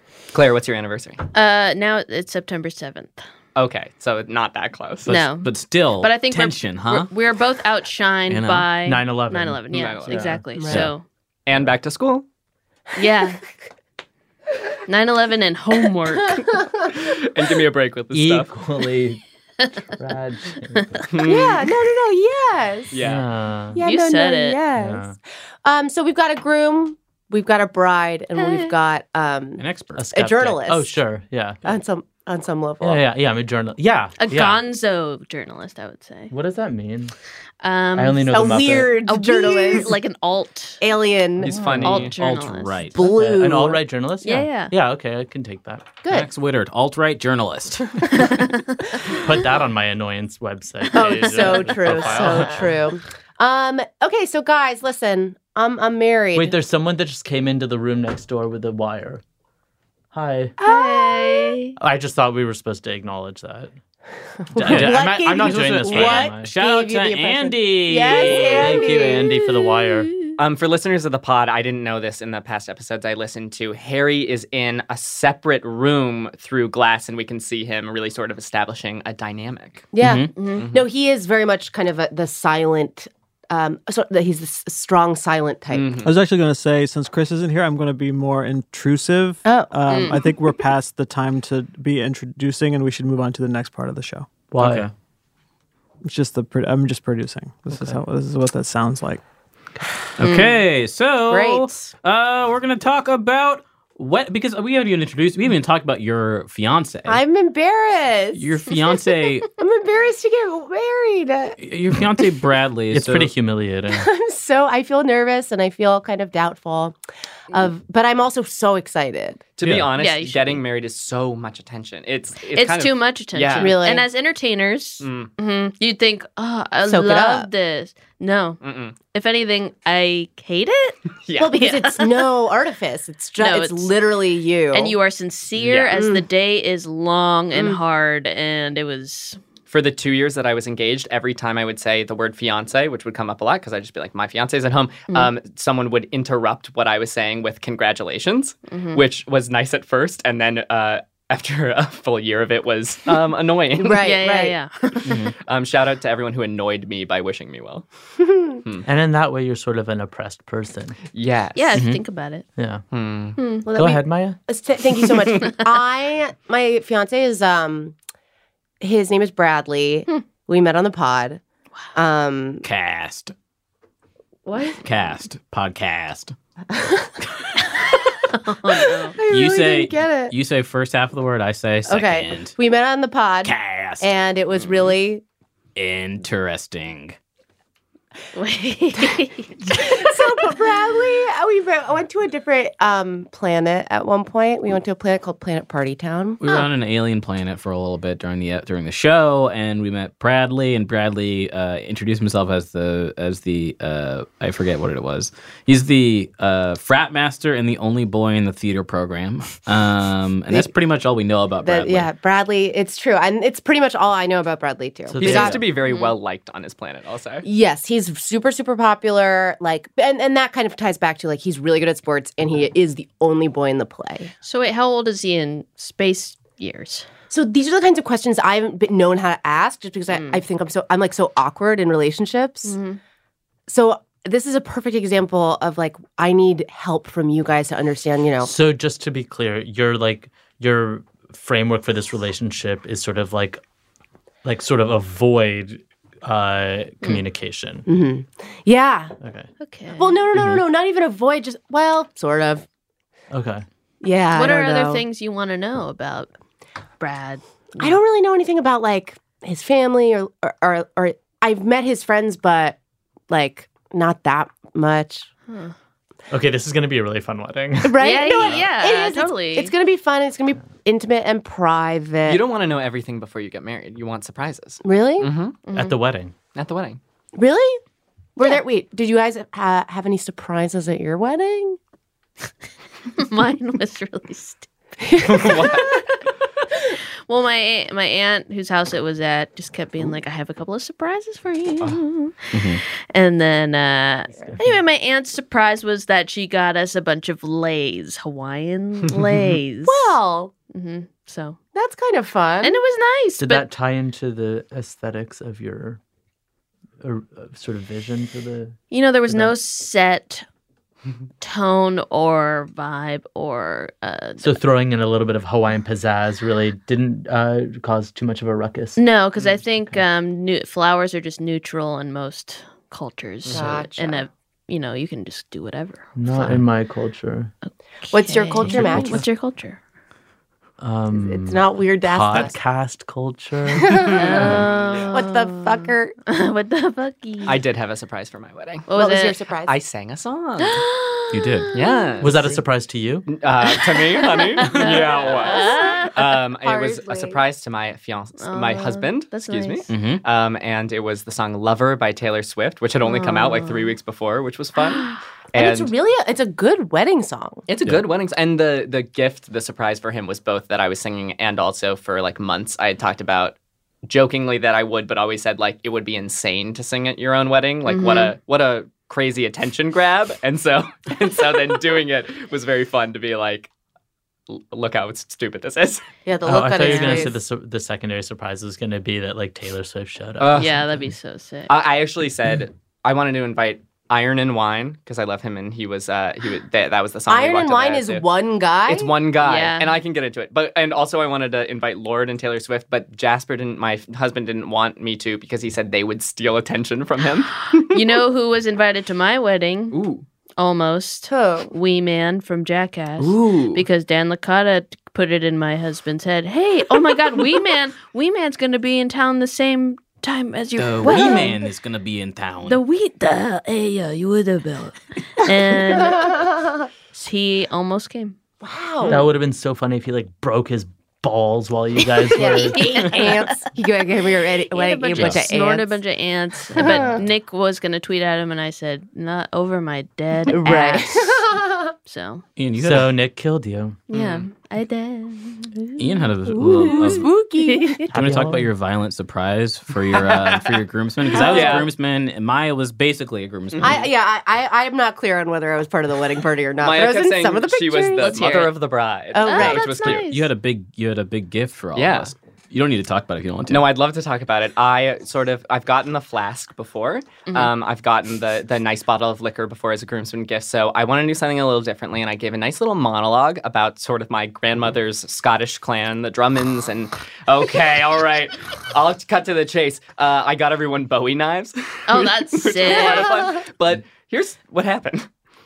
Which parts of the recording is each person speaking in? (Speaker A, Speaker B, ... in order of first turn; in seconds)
Speaker A: 0.3-1.2, 3.5-5.2, 9.7-10.2, 11.5-12.2, 17.0-18.5, 21.1-21.6, 22.9-23.2, 41.4-42.1, 70.4-79.9, 80.6-80.8, 85.7-86.1, 119.6-123.7, 125.0-125.3, 128.6-128.9, 131.2-131.6, 135.6-135.9, 139.7-154.0, 155.4-157.8, 161.1-161.8, 162.9-163.4, 215.2-217.4, 272.2-275.6, 276.5-277.0, 285.2-286.0, 323.4-323.8, 337.4-338.9, 339.6-340.8, 341.7-342.6, 343.3-355.9, 357.7-363.5, 364.1-373.7, 374.5-376.0, 380.4-380.7, 381.7-388.2, 388.9-397.7, 399.9-400.2, 403.3-403.8, 434.1-434.5, 440.1-440.6, 441.4-441.9, 443.7-444.0, 446.8-450.2, 451.9-452.3, 453.7-475.3
Speaker B: 1.3-3.2, 5.1-11.0, 12.9-13.4, 14.9-16.4, 23.8-24.6, 28.4-28.7, 34.2-36.3, 37.6-38.5, 39.0-40.8, 41.8-42.8, 44.2-44.7, 48.1-49.0, 60.6-61.8, 68.6-70.3, 80.3-80.6, 89.9-90.3, 120.0-120.6, 122.5-128.6, 129.1-131.0, 131.5-132.2, 133.4-133.9, 134.7-139.4, 148.7-149.0, 154.0-155.2, 161.5-162.4, 163.3-163.7, 178.3-179.2, 188.3-190.1, 215.8-216.1, 224.4-227.1, 230.1-230.4, 232.6-233.0, 249.6-250.2, 254.3-256.3, 257.0-258.0, 265.5-265.7, 268.0-269.7, 275.6-276.0, 283.1-284.7, 287.3-300.1, 300.7-301.6, 302.6-303.7, 308.9-310.4, 311.4-314.5, 318.9-326.6, 328.0-329.8, 334.1-337.6, 338.9-339.4, 340.6-342.1, 343.9-346.1, 348.4-349.9, 353.0-353.9, 367.9-368.3, 376.8-377.2, 380.5-381.7, 389.4-389.9, 397.9-400.0, 400.6-411.6, 412.6-416.4, 417.1-418.4, 422.5-423.7, 424.7-431.5, 432.0-432.4, 434.1-436.2, 436.7-438.1, 441.3-441.8, 448.2-448.7, 449.4-450.5, 457.5-457.7, 472.1-473.4
Speaker C: 5.1-7.1, 8.3-8.7, 29.6-30.1, 41.7-43.0, 46.1-48.3, 51.8-52.3, 64.7-68.6, 80.0-80.3, 94.6-94.9, 100.2-107.2, 108.3-109.5, 111.6-113.3, 119.6-119.9, 155.0-155.3, 161.7-162.0, 172.6-173.3, 174.8-176.3, 179.3-182.5, 183.4-184.1, 185.8-187.2, 196.4-212.1, 292.5-292.8, 334.3-334.6, 341.3-341.7, 349.9-350.2, 403.2-403.6, 410.8-412.8, 432.6-433.1, 436.0-437.3, 438.1-444.1, 449.7-453.9
Speaker D: 8.8-10.4, 18.1-19.2, 20.0-21.0, 22.9-23.8, 24.8-25.1, 29.9-31.6, 32.8-34.6, 36.3-37.1, 38.0-39.0, 41.4-42.1, 43.0-45.9, 49.1-52.8, 56.3-59.2, 60.1-60.5, 61.8-63.7, 64.5-66.5, 68.2-70.1, 94.5-94.9, 97.7-98.0, 112.9-114.1, 158.8-161.0, 162.6-162.8, 163.7-164.4, 215.1-215.6, 238.4-243.6, 244.4-247.8, 249.2-249.5, 253.3-253.6, 266.3-268.2, 275.7-276.3, 303.4-306.0, 307.0-309.5, 314.4-319.0, 326.1-327.5, 330.8-334.1, 342.2-343.3, 376.4-381.0, 419.1-423.1, 432.8-434.0, 438.1-438.7
Speaker E: 10.5-10.9, 16.1-16.9, 21.2-23.0, 23.7-25.1, 25.6-31.0, 31.6-33.0, 38.3-39.9, 40.8-41.6, 42.9-43.8, 46.0-46.3, 50.9-56.6, 60.6-61.5, 64.4-69.3, 79.9-86.0, 89.4-90.2, 101.2-101.9, 107.0-108.8, 109.6-111.6, 113.9-117.0, 117.5-119.5, 123.5-124.0, 126.8-127.5, 131.4-134.9, 135.9-136.2, 137.5-137.8, 153.8-154.6, 158.2-158.6, 163.6-167.9, 168.8-171.4, 171.9-172.6, 174.4-174.8, 176.7-177.1, 178.8-180.3, 181.8-185.2, 189.7-196.7, 211.6-215.6, 217.4-224.3, 227.3-232.7, 233.7-238.5, 247.8-249.1, 250.0-252.6, 254.0-255.0, 257.8-262.8, 263.3-265.3, 267.8-272.4, 274.8-275.3, 277.3-277.8, 278.4-281.8, 285.0-286.0, 299.8-300.5, 301.7-302.8, 323.5-324.3, 328.1-329.2, 331.1-332.6, 333.8-336.1, 338.9-339.7, 345.1-347.4, 355.5-357.6, 376.2-377.4, 387.3-389.1, 401.3-401.7, 411.1-411.4, 415.9-416.9, 418.6-419.2, 422.3-426.0, 426.7-427.2, 430.5-431.9, 436.5-438.1, 441.4-441.8, 443.8-448.5, 449.3-449.9
Speaker F: 86.0-94.3, 96.0-99.2